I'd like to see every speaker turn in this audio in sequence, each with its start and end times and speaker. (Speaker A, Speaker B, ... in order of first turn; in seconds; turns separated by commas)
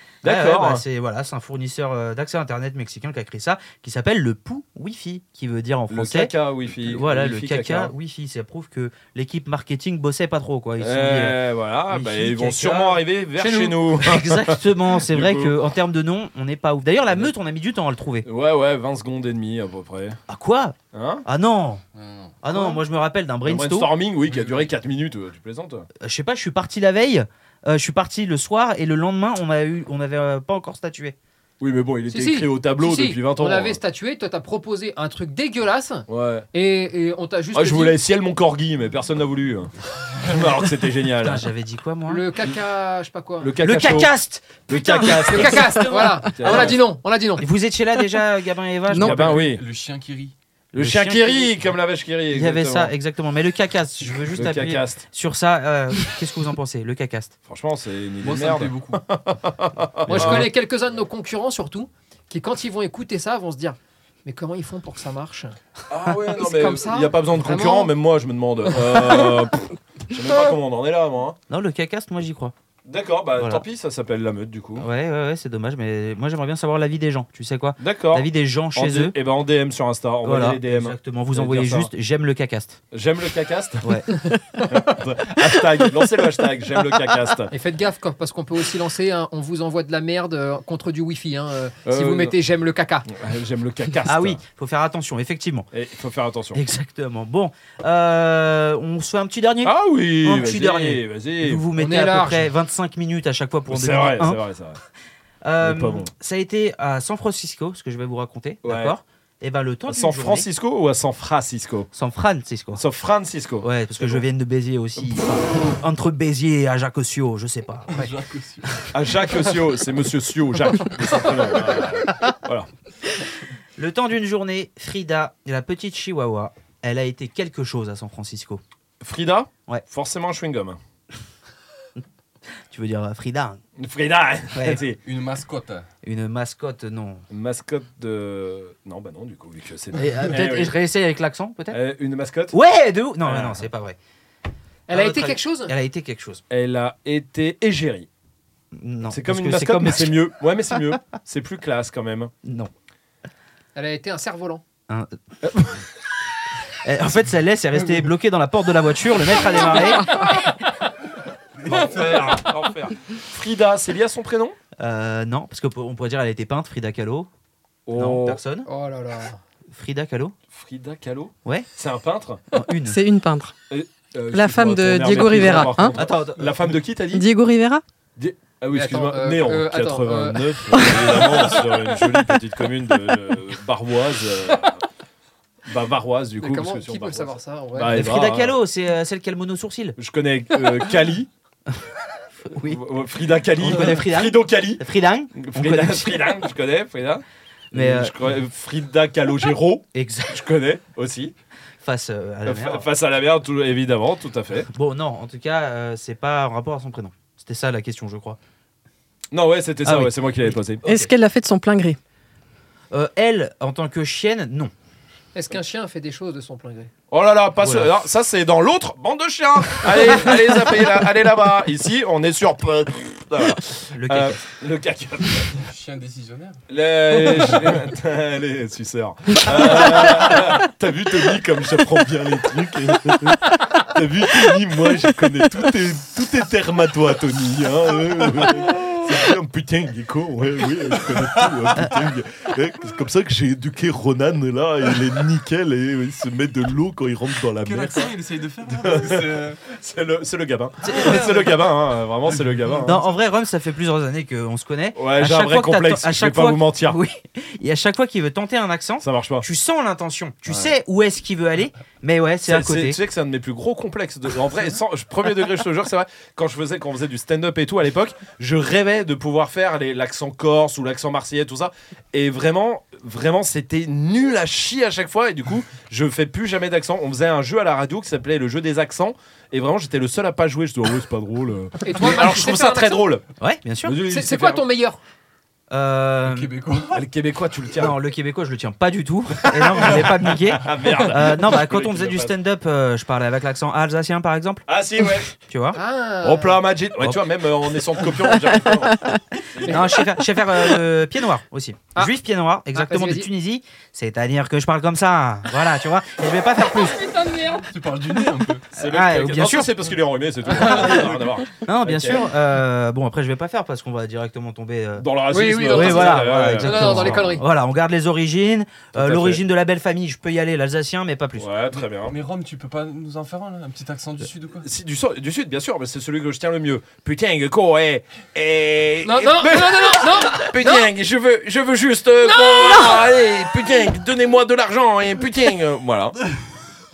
Speaker A: 0.2-0.8, Speaker B: 0.2-6.3, Speaker A: 5.9-7.9, Speaker B: 6.8-13.0, Speaker A: 10.8-15.6, Speaker C: 13.4-13.8, Speaker B: 14.0-18.2, Speaker A: 18.2-20.2, Speaker B: 20.3-21.8, Speaker A: 20.9-21.2, Speaker D: 21.9-22.3, Speaker B: 22.4-23.9, Speaker A: 23.4-25.9, Speaker D: 24.3-24.7, Speaker B: 26.0-31.1, Speaker A: 31.6-33.8, Speaker C: 32.1-38.0, Speaker A: 36.1-36.5, Speaker A: 37.5-41.5, Speaker B: 41.2-42.3, Speaker C: 42.1-43.5, Speaker A: 43.4-44.1, Speaker B: 43.6-46.8, Speaker A: 44.7-46.8, Speaker C: 45.2-47.5, Speaker B: 47.4-49.5, Speaker E: 48.9-49.3, Speaker A: 48.9-49.6, Speaker D: 49.3-50.3, Speaker B: 50.7-51.5, Speaker A: 50.7-52.9, Speaker B: 52.3-57.3, Speaker A: 54.3-55.0, Speaker A: 57.5-60.5, Speaker D: 58.2-59.0, Speaker B: 60.1-60.5, Speaker C: 60.1-65.5, Speaker A: 65.9-71.4, Speaker C: 66.3-67.9, Speaker B: 71.5-72.5, Speaker A: 72.8-74.8, Speaker B: 73.3-73.6, Speaker B: 74.8-79.1, Speaker A: 77.8-81.9, Speaker B: 80.2-82.8, Speaker A: 82.9-84.0, Speaker A: 84.7-87.5, Speaker C: 87.5-93.1, Speaker A: 91.8-92.3, Speaker A: 93.1-94.4, Speaker B: 94.0-95.7, Speaker A: 95.7-96.6, Speaker B: 96.5-104.4, Speaker A: 99.6-101.6, Speaker C: 101.8-102.5, Speaker A: 103.7-104.8, Speaker B: 105.4-110.5, Speaker A: 105.6-106.1, Speaker A: 108.6-108.9, Speaker A: 109.9-111.9, Speaker B: 111.9-112.8, Speaker A: 112.8-114.2, Speaker B: 113.6-118.1, Speaker D: 117.9-118.9, Speaker A: 118.9-122.7, Speaker B: 123.8-128.6, Speaker A: 129.0-130.8, Speaker B: 132.7-133.6, Speaker A: 133.8-135.0, Speaker B: 134.5-134.8, Speaker D: 135.0-135.9, Speaker B: 136.0-137.2, Speaker A: 137.3-140.8, Speaker B: 139.9-141.8, Speaker A: 141.7-142.6, Speaker B: 142.5-144.0, Speaker A: 143.2-143.6, Speaker C: 144.9-145.7, Speaker B: 144.9-146.4, Speaker A: 146.5-148.1, Speaker B: 148.7-150.2, Speaker A: 149.1-152.3, Speaker B: 152.4-152.7, Speaker C: 153.7-154.6, Speaker B: 154.9-155.1, Speaker A: 155.4-155.8, Speaker B: 156.8-160.2, Speaker D: 161.6-162.5, Speaker A: 161.7-164.6, Speaker B: 164.8-167.3, Speaker A: 167.9-168.4, Speaker B: 167.9-168.7, Speaker C: 168.7-169.4, Speaker B: 169.7-170.3, Speaker A: 170.5-172.4, Speaker B: 172.5-173.0, Speaker E: 172.8-173.5, Speaker A: 173.7-177.3, Speaker E: 174.3-175.9, Speaker B: 175.9-176.7, Speaker E: 177.1-177.8, Speaker A: 178.2-184.8, Speaker C: 178.7-181.6, Speaker A: 185.7-188.6, Speaker C: 186.4-187.9, Speaker B: 187.9-190.0, Speaker A: 190.0-191.3, Speaker B: 192.4-192.8, Speaker A: 192.6-201.3, Speaker B: 193.6-196.4, Speaker B: 197.7-198.1, Speaker B: 199.9-200.4, Speaker B: 201.8-202.8, Speaker A: 202.4-204.7, Speaker B: 204.7-208.4, Speaker A: 209.3-210.8, Speaker B: 209.8-211.1, Speaker E: 210.8-212.0, Speaker B: 212.9-214.7, Speaker C: 215.3-216.9, Speaker A: 217.1-225.6, Speaker B: 217.6-217.9, Speaker B: 223.9-224.4, Speaker D: 225.5-226.6, Speaker A: 226.7-248.1, Speaker D: 241.1-241.5, Speaker D: 247.6-249.6, Speaker A: 248.8-253.0, Speaker B: 250.8-251.4, Speaker D: 250.9-251.5, Speaker D: 252.3-252.8, Speaker B: 252.8-263.0, Speaker A: 254.9-257.0, Speaker A: 259.0-259.4, Speaker A: 262.4-283.2, Speaker C: 281.8-283.0, Speaker B: 283.4-284.0, Speaker A: 283.8-284.6, Speaker C: 284.0-285.0, Speaker B: 285.7-286.5, Speaker D: 286.2-287.0, Speaker A: 286.9-287.9, Speaker B: 287.8-294.6, Speaker A: 289.5-292.3, Speaker A: 294.7-295.4, Speaker B: 295.4-295.8, Speaker C: 295.7-296.6, Speaker A: 296.2-300.0, Speaker C: 299.6-300.0, Speaker B: 299.7-307.1, Speaker C: 302.7-303.3, Speaker C: 306.7-307.7, Speaker D: 307.7-308.6, Speaker A: 308.7-312.3, Speaker B: 308.8-309.7, Speaker D: 310.6-311.4, Speaker B: 311.6-315.1, Speaker A: 315.0-317.3, Speaker C: 315.3-317.4, Speaker B: 315.7-321.5, Speaker A: 318.9-319.4, Speaker A: 321.4-322.1, Speaker D: 321.9-324.7, Speaker A: 324.6-336.2, Speaker C: 329.0-330.8, Speaker C: 332.3-333.0